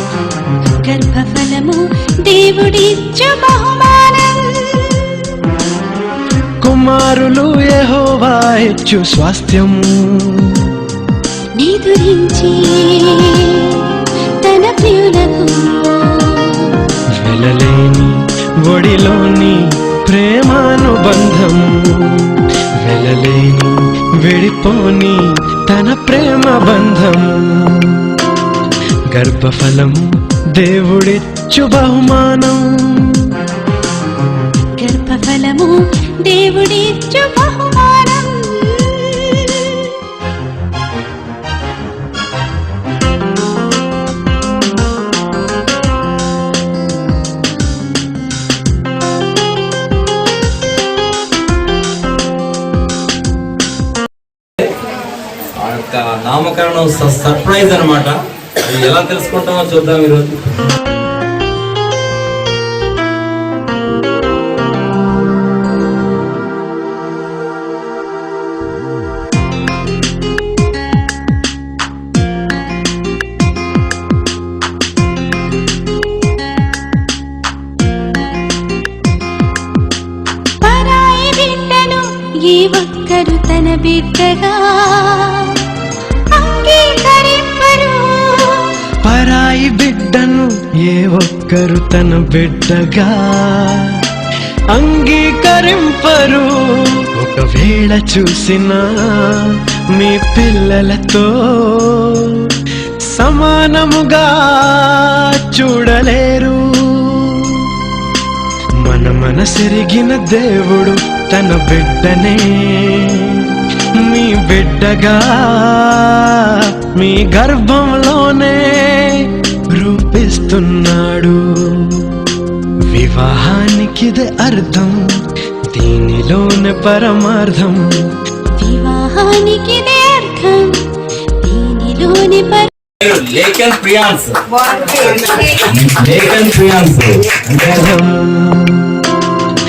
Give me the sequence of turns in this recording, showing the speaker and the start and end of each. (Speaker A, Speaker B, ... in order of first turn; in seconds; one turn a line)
Speaker A: 0.8-5.3
Speaker B: 6.6-10.7
Speaker A: 11.6-16.8
Speaker B: 17.2-28.3
Speaker B: 29.1-33.4
Speaker A: 34.8-40.0
Speaker C: 55.5-60.6
Speaker A: 80.6-85.7
Speaker A: 86.3-88.8
Speaker B: 89.0-94.0
Speaker B: 94.7-102.5
Speaker B: 103.1-107.8
Speaker B: 108.8-122.1
Speaker B: 122.9-125.2
Speaker B: 125.7-128.1
Speaker A: 128.6-130.9
Speaker A: 131.4-132.7
Speaker C: 133.0-137.8
Speaker B: 137.6-139.2